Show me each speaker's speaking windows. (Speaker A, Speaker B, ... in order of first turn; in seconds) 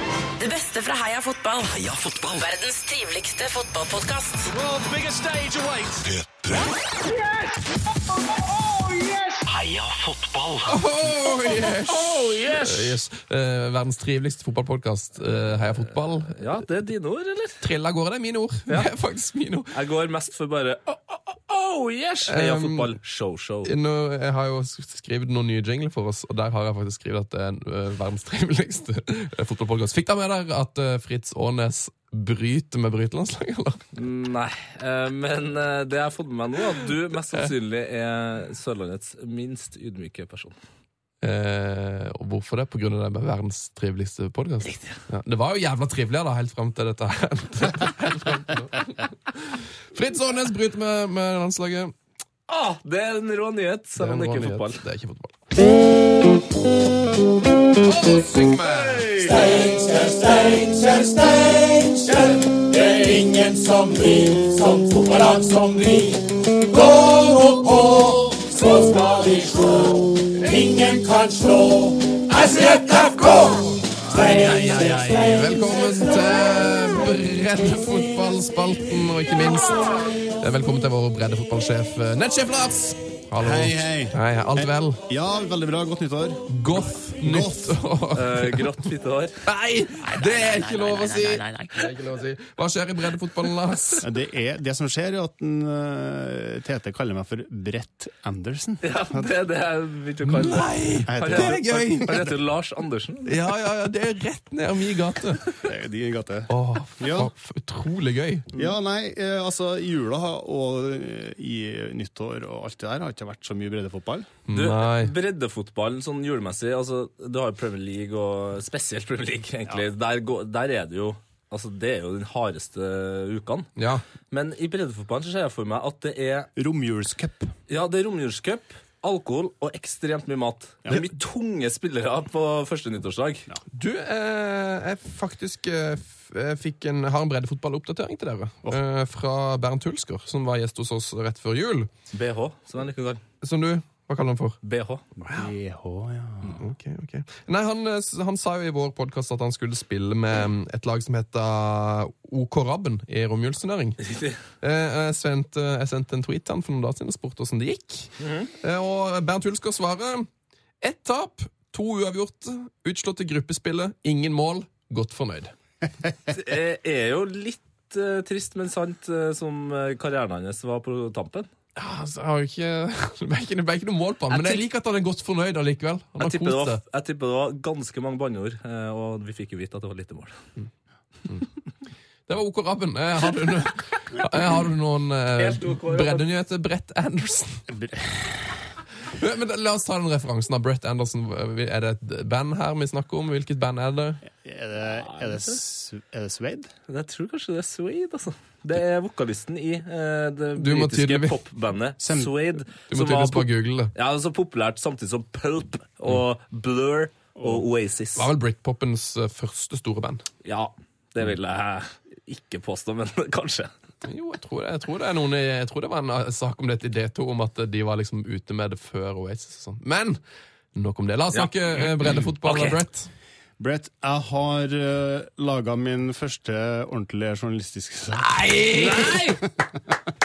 Speaker A: 0.4-1.7, 2.4-4.5, 90.3-91.7
Speaker B: 1.7-2.5, 9.5-10.8
Speaker C: 4.4-9.5, 12.2-12.5, 59.1-75.5
Speaker D: 10.7-16.6, 17.6-19.7, 22.3-22.9, 23.6-33.8, 41.2-51.9, 54.0-55.4, 57.8-59.1, 74.2-85.0, 86.5-88.9, 89.4-94.0, 100.3-102.2, 103.3-105.6, 106.5-108.6, 114.5-115.1, 123.8-124.0, 133.7-141.9, 143.4-144.6, 145.2-145.5, 146.6-154.0, 154.6-160.3, 160.8-165.5, 171.8-176.8, 182.3-187.6, 189.1-194.2, 200.6-201.4, 202.9-203.9, 208.2-210.3, 214.0-220.2, 220.7-223.1, 228.1-229.2
Speaker E: 11.8-12.9, 16.2-17.6, 19.7-23.7, 33.9-40.5, 44.6-44.9, 52.5-54.8, 58.9-59.3, 88.1-89.4, 98.8-103.4, 114.5-123.7, 124.3-126.5, 127.7-133.4, 142.1-143.2, 144.6-145.2, 154.0-154.4, 158.2-158.5, 166.3-171.5, 174.3-174.6, 176.2-180.4, 185.4-186.3, 194.9-195.6, 196.9-208.3, 210.4-213.7, 221.3-222.8, 228.7-229.4
Speaker F: 83.4-86.5, 87.2-87.8, 94.0-99.3, 101.1-102.3, 105.6-107.3, 108.5-114.3, 126.6-127.5, 145.4-146.6, 187.7-188.7, 194.4-196.7, 202.0-202.3, 207.4-207.6, 223.6-229.4